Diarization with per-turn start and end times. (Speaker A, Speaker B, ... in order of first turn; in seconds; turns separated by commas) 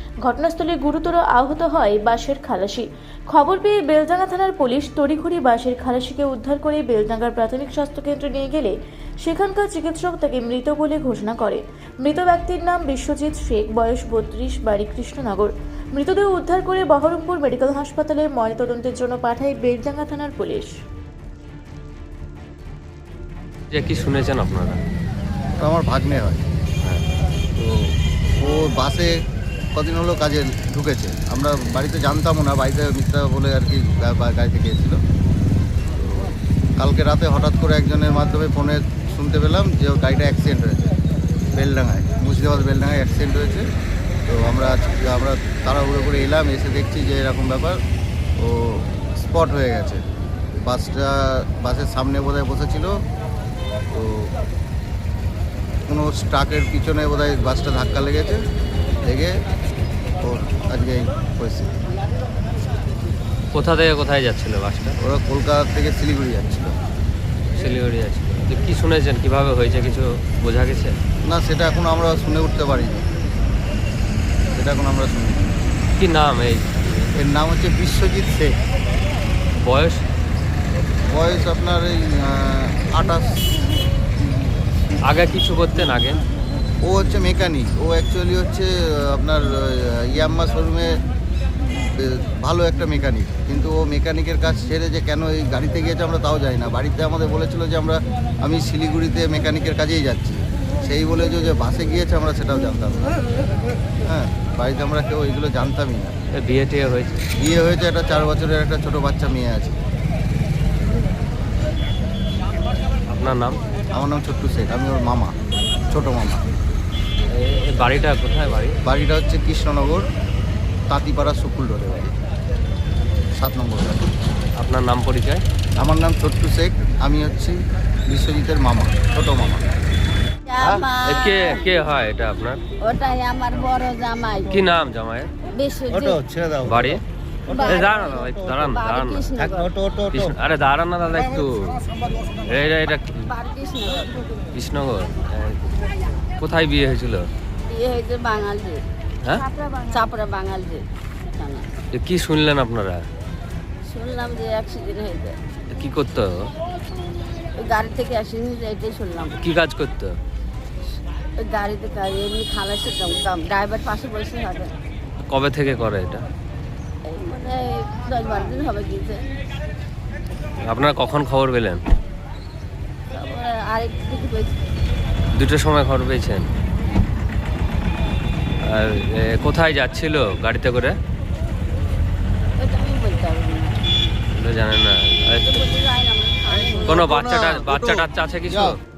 Speaker A: 0.2-20.7, Speaker B: 23.7-24.8, Speaker C: 25.6-26.4, Speaker C: 27.6-29.2, Speaker C: 29.8-35.0, Speaker C: 36.0-40.9, Speaker C: 41.5-43.7, Speaker C: 44.3-47.8, Speaker C: 48.4-50.0, Speaker C: 50.6-53.0, Speaker C: 53.9-54.3, Speaker C: 55.9-58.4, Speaker C: 59.0-59.4, Speaker C: 60.2-61.8, Speaker B: 63.5-65.0, Speaker C: 65.0-66.8, Speaker B: 67.5-71.0, Speaker C: 71.3-73.1, Speaker C: 74.5-75.5, Speaker B: 76.0-77.1, Speaker C: 77.2-78.6, Speaker B: 79.6-80.0, Speaker C: 81.1-83.4, Speaker B: 85.0-86.2, Speaker C: 86.8-91.0, Speaker C: 92.0-103.2, Speaker C: 104.0-106.1, Speaker B: 106.4-107.3, Speaker C: 107.4-109.8, Speaker B: 113.1-113.6, Speaker C: 113.9-115.3, Speaker C: 115.9-116.4, Speaker B: 117.3-118.8, Speaker C: 118.8-120.1, Speaker C: 120.9-122.1, Speaker C: 123.4-124.1, Speaker B: 124.6-125.4, Speaker C: 125.8-129.6, Speaker D: 130.5-131.6, Speaker B: 131.0-132.6, Speaker D: 132.8-134.6, Speaker B: 134.5-135.3, Speaker D: 135.5-136.2, Speaker C: 135.9-138.5, Speaker B: 136.7-139.3, Speaker D: 137.5-139.7, Speaker C: 139.4-140.3, Speaker B: 140.1-141.8, Speaker B: 142.4-143.3, Speaker D: 143.3-144.4, Speaker B: 144.5-145.6, Speaker B: 146.4-147.3, Speaker D: 147.7-151.7, Speaker B: 151.9-153.1, Speaker D: 153.8-155.4, Speaker B: 155.7-156.5, Speaker D: 157.6-159.4, Speaker B: 159.4-160.2, Speaker D: 161.4-164.7, Speaker B: 165.3-166.2, Speaker D: 167.1-169.3, Speaker B: 170.7-171.8, Speaker D: 173.1-174.6, Speaker B: 175.3-176.5, Speaker B: 178.6-181.0, Speaker D: 182.6-184.1, Speaker B: 184.3-185.7, Speaker D: 185.4-187.2, Speaker C: 186.5-188.8, Speaker B: 186.9-188.8